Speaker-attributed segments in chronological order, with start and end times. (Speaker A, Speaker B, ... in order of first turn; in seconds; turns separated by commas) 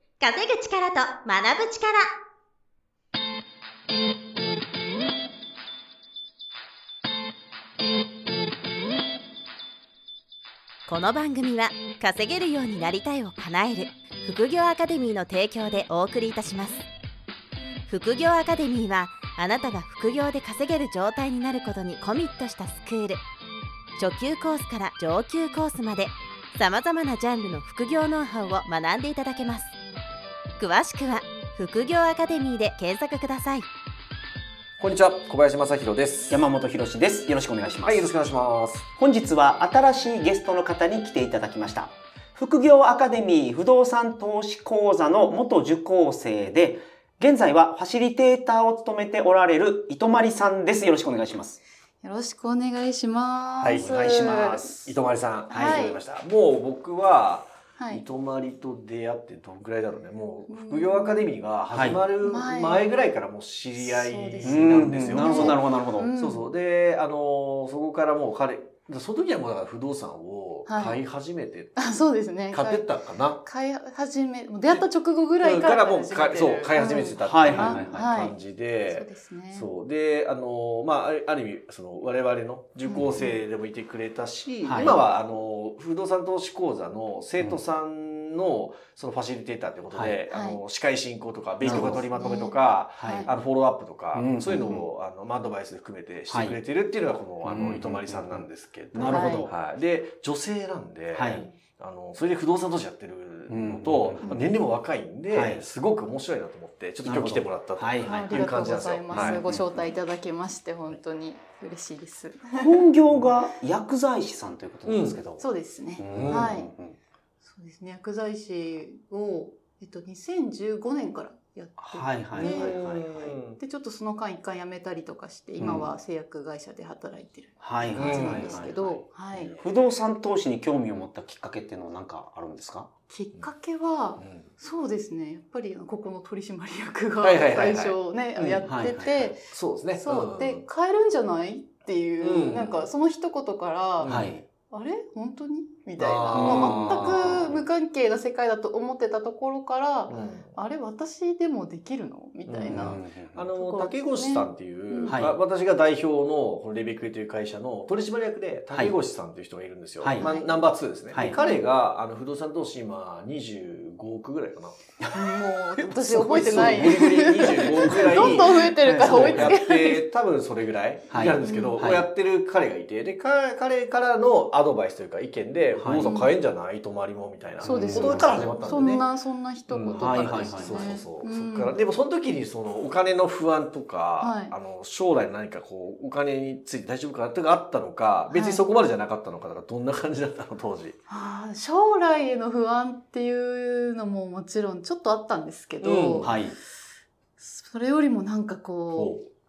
Speaker A: 0.2-2.1, Speaker A: 10.9-16.8, Speaker A: 17.9-23.2, Speaker A: 24.0-29.7, Speaker A: 30.6-33.7, Speaker B: 34.8-36.4, Speaker C: 36.3-38.1, Speaker B: 37.8-38.9, Speaker C: 39.0-51.6, Speaker D: 52.0-54.8, Speaker B: 53.6-65.6, Speaker C: 53.8-54.9, Speaker C: 55.5-55.8, Speaker D: 55.5-56.0, Speaker D: 57.8-58.0, Speaker D: 60.5-61.3, Speaker C: 61.7-62.0, Speaker D: 62.2-62.9, Speaker D: 63.8-66.5, Speaker C: 64.4-66.1, Speaker B: 66.2-71.8, Speaker D: 70.7-71.0, Speaker D: 71.8-72.9, Speaker B: 72.5-73.4, Speaker D: 73.4-78.3, Speaker B: 75.4-109.4, Speaker C: 77.2-78.1, Speaker D: 78.9-79.7, Speaker D: 82.8-83.4, Speaker C: 84.6-85.0, Speaker C: 89.9-90.2, Speaker D: 90.3-90.6, Speaker C: 91.6-92.0, Speaker D: 91.7-93.3, Speaker C: 93.0-93.3, Speaker C: 94.1-94.9, Speaker D: 94.5-94.8, Speaker C: 96.3-96.6, Speaker C: 97.4-99.5, Speaker D: 99.1-99.5, Speaker C: 101.1-101.5, Speaker C: 103.5-104.4, Speaker C: 105.3-105.6, Speaker C: 107.0-108.4, Speaker D: 108.0-112.8, Speaker C: 109.1-109.8, Speaker C: 112.6-115.4, Speaker B: 114.9-115.2, Speaker D: 115.4-116.7, Speaker C: 116.0-117.0, Speaker B: 116.1-116.5, Speaker D: 117.4-122.8, Speaker C: 121.8-123.4, Speaker B: 122.3-123.6, Speaker D: 123.6-129.6, Speaker C: 125.6-125.9, Speaker C: 127.6-129.0, Speaker B: 127.9-129.6, Speaker C: 129.6-132.9, Speaker D: 133.1-139.4, Speaker B: 134.2-134.5, Speaker B: 137.2-138.6, Speaker C: 138.7-139.3, Speaker B: 139.4-140.6, Speaker D: 140.0-144.2, Speaker B: 142.2-142.9, Speaker B: 144.0-144.3, Speaker C: 144.0-144.4, Speaker D: 144.7-153.0, Speaker B: 146.0-147.5, Speaker C: 146.3-147.6, Speaker B: 150.1-150.5, Speaker B: 152.5-164.8, Speaker C: 152.6-153.3, Speaker D: 153.5-155.2, Speaker C: 155.1-155.3, Speaker C: 160.0-160.3, Speaker D: 160.2-160.7, Speaker D: 161.2-161.6, Speaker D: 165.1-170.0, Speaker B: 165.9-179.0, Speaker C: 166.5-167.0, Speaker C: 167.7-169.5, Speaker C: 171.1-172.0, Speaker D: 171.2-171.8, Speaker C: 175.8-176.1, Speaker D: 176.0-176.3, Speaker C: 177.6-178.7, Speaker D: 177.6-181.8, Speaker C: 179.7-180.9, Speaker B: 179.9-191.0, Speaker D: 184.2-184.5, Speaker D: 188.3-188.6, Speaker D: 191.1-196.4, Speaker B: 195.8-196.3, Speaker C: 196.2-196.5, Speaker D: 197.4-199.2, Speaker B: 198.9-199.2